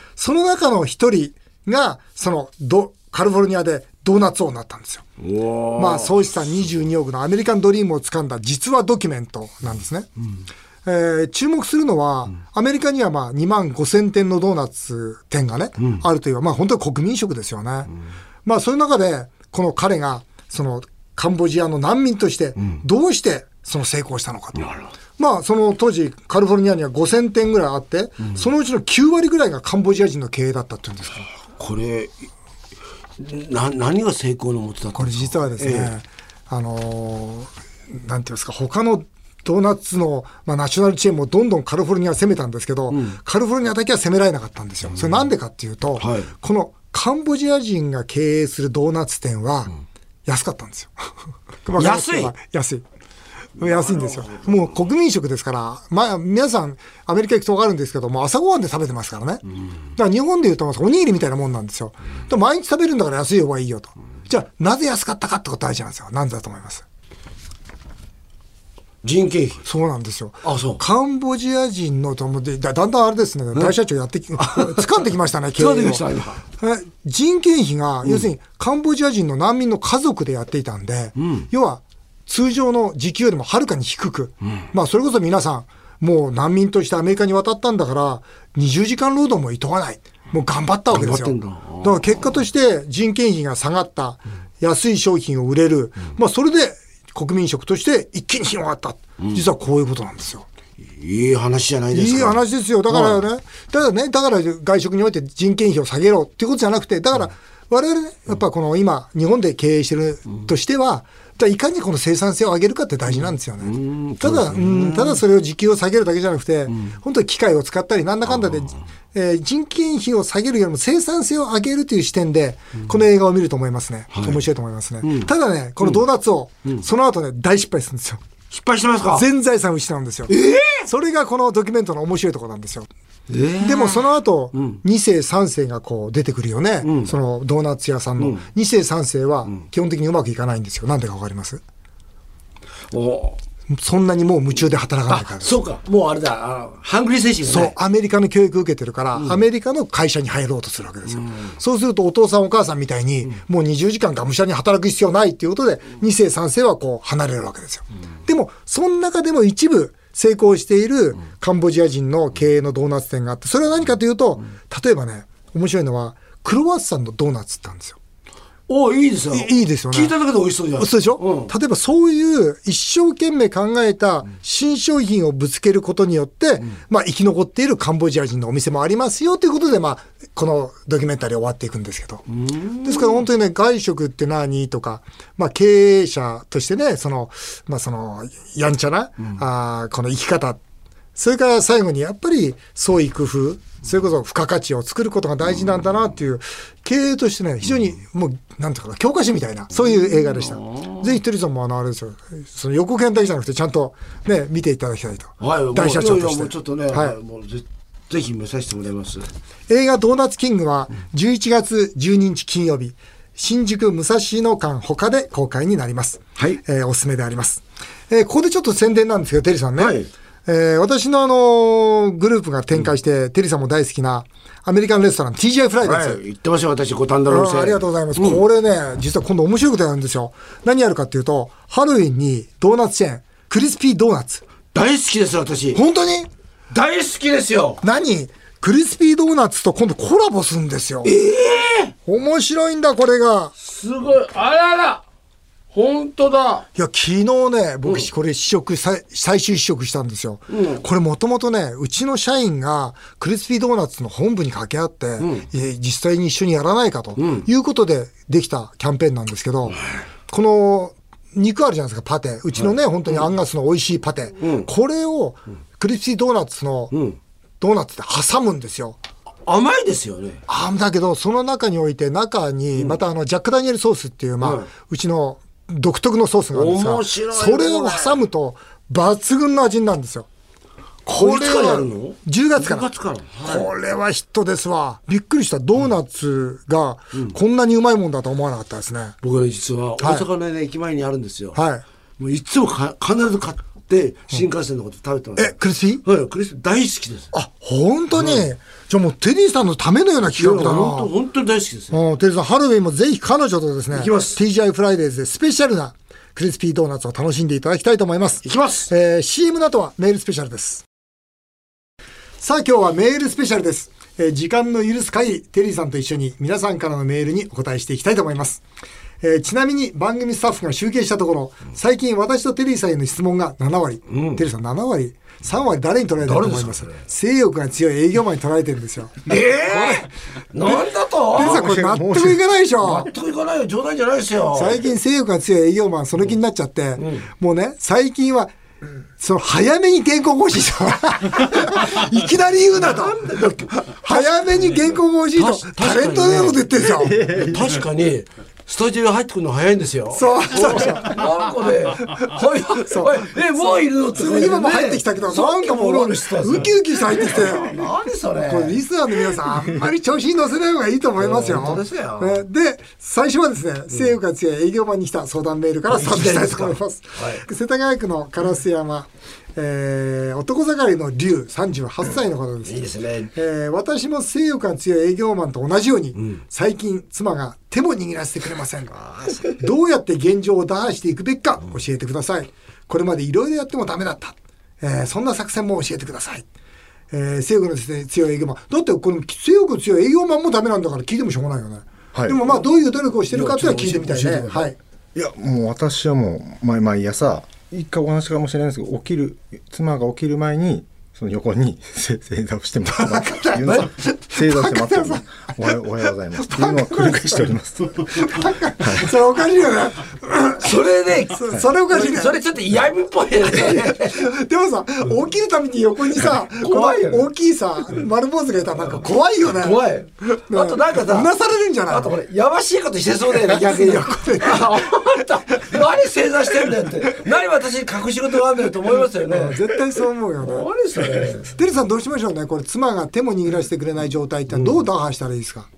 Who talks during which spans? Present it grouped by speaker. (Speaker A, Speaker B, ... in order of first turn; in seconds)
Speaker A: 0.2-5.0, 5.8-10.1, 10.8-17.9, 18.4-31.3, 34.9-49.7, 50.2-50.9, 51.6-52.8, 53.6-59.4, 60.0-66.8, 69.6-76.0, 76.6-100.5, 101.9-128.2, 129.1-132.9, 133.6-141.6, 143.7-145.6, 147.4-168.0, 169.3-170.1, 170.8-182.2, 182.8-190.6, 191.2-207.2, 209.7-226.2, 227.3-234.4, 235.7-236.3, 237.8-241.1, 242.1-243.5, 246.7-266.9, 267.6-269.0, 270.5-280.3, 281.1-282.9, 283.4-289.1, 290.0-290.2, 291.5-291.8, 295.4-296.0, 297.3-301.1, 301.9-310.8, 312.4-318.6, 319.2-330.1, 331.3-333.1, 334.5-338.5, 339.2-343.2, 343.8-347.2, 350.1-351.2, 352.9-353.3, 354.1-357.8, 358.4-386.4, 387.1-394.8, 402.9-405.5, 406.4-407.5, 408.1-410.8, 411.3-412.4, 413.6-422.1, 423.4-425.7, 429.2-430.7, 431.4-435.7
Speaker B: 5.2-6.3, 31.5-32.1, 33.2-35.9, 42.9-43.2, 44.9-45.2, 46.0-46.3, 51.8-52.3, 53.6-54.8, 69.0-69.6, 70.4-70.8, 74.4-76.4, 81.2-81.5, 90.9-92.0, 99.2-99.4, 100.9-103.2, 113.1-115.2, 116.7-116.9, 124.1-124.4, 125.0-126.0, 128.5-129.2, 130.3-130.9, 133.3-134.8, 136.8-137.1, 138.2-138.4, 142.9-143.4, 145.1-147.7, 149.2-149.4, 168.7-171.5, 182.3-183.2, 199.8-201.1, 205.4-209.3, 219.8-220.1, 225.8-228.4, 234.7-235.8, 236.7-237.8, 241.0-241.9, 243.6-245.0, 245.7-246.7, 250.5-250.8, 255.2-255.4, 257.2-257.5, 262.6-263.2, 264.4-264.7, 266.9-267.2, 269.4-270.4, 274.4-274.7, 276.5-278.2, 281.1-283.7, 289.2-291.6, 292.2-297.3, 298.1-298.5, 300.4-302.0, 303.9-304.4, 308.4-308.9, 324.1-324.4, 326.2-327.0, 329.2-331.6, 332.8-334.9, 337.0-337.2, 342.8-344.3, 345.4-358.8, 361.2-362.4, 365.9-367.4, 372.6-373.3, 393.3-394.7, 410.6-414.2, 416.6-417.3, 419.5-421.3, 421.9-431.5, 434.5-434.8
Speaker C: 331.4-332.4, 346.9-347.8, 392.1-392.4, 395.1-409.1